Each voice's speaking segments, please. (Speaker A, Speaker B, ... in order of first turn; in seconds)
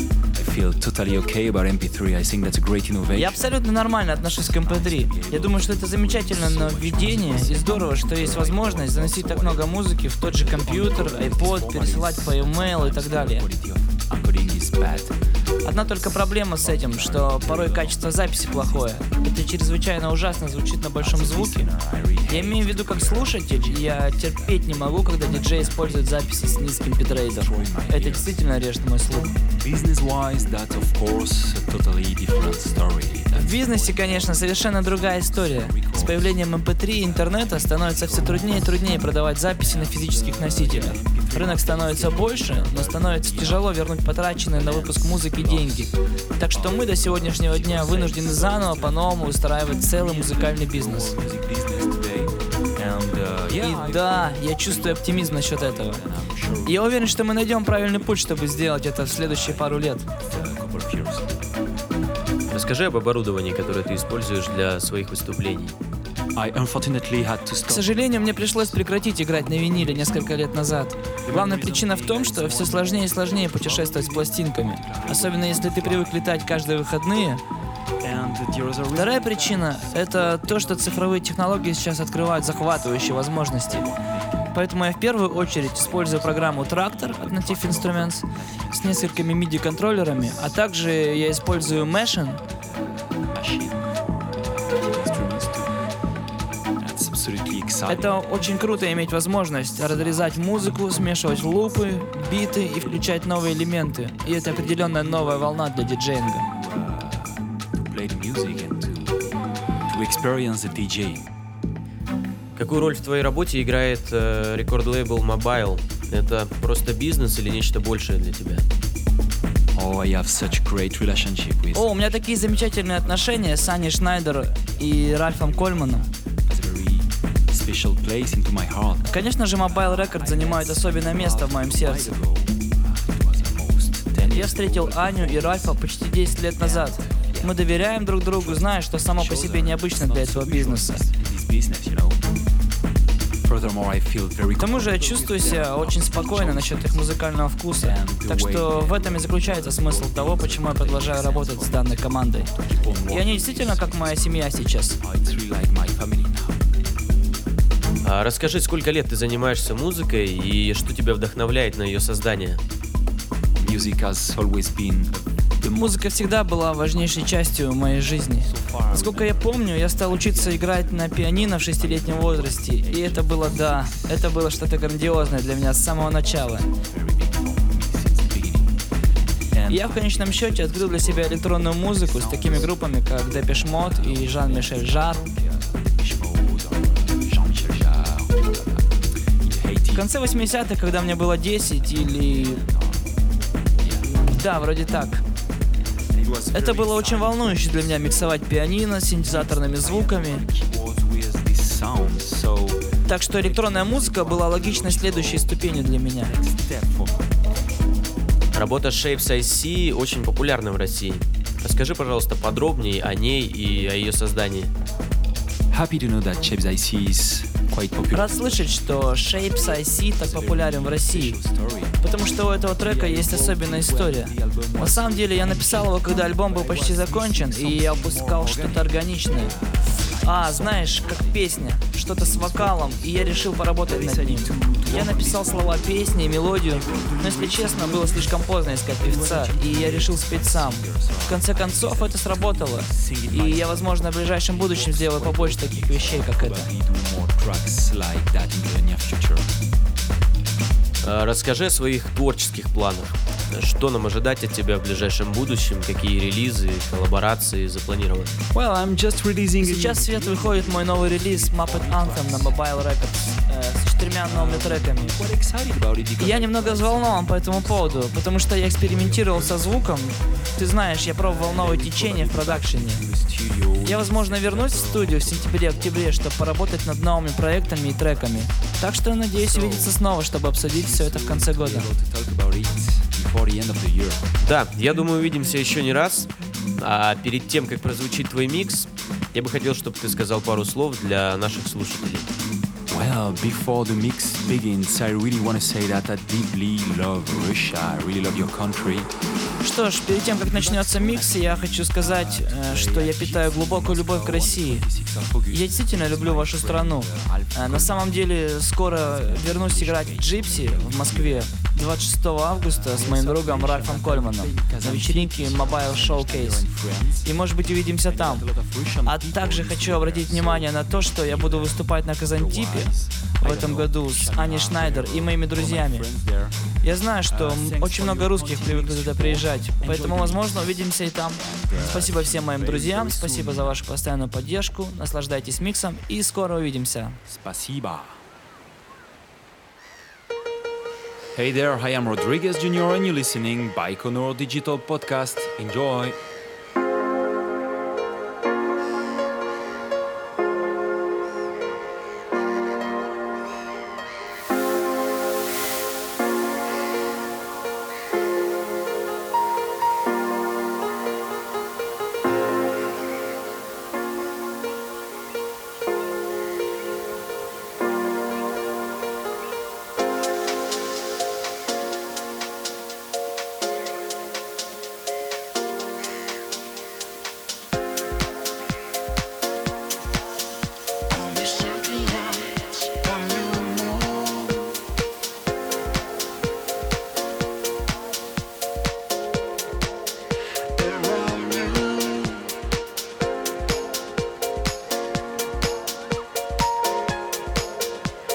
Speaker A: 0.3-28.5, 29.4-61.7, 66.3-77.1, 78.0-95.8, 96.8-111.3, 119.7-136.0, 136.5-142.3, 143.4-157.0, 163.6-178.8, 179.5-194.3, 196.1-207.3, 215.7-249.6, 258.4-278.8, 279.3-284.2, 292.9-299.1, 300.1-333.9, 337.2-338.2, 341.3-346.2
Speaker B: 3.1-13.5, 15.6-21.7, 22.3-29.3, 33.3-51.2, 53.5-56.0, 56.6-60.1, 67.7-77.4, 78.9-83.9, 84.5-92.4, 97.9-106.5, 121.7-126.0, 129.0-132.1, 134.3-141.1, 144.6-155.0, 165.7-176.7, 179.7-185.2, 189.9-192.6, 194.1-195.2, 196.5-200.5, 203.1-206.3, 218.1-221.4, 222.0-229.6, 230.2-246.7, 259.6-265.2, 266.2-273.0, 273.8-281.9, 299.6-304.9, 305.5-316.7, 317.2-318.4, 319.0-326.1, 326.8-337.2
Speaker C: 62.5-65.8, 112.5-118.7, 158.0-162.6, 208.5-214.7, 251.0-258.4, 284.4-292.3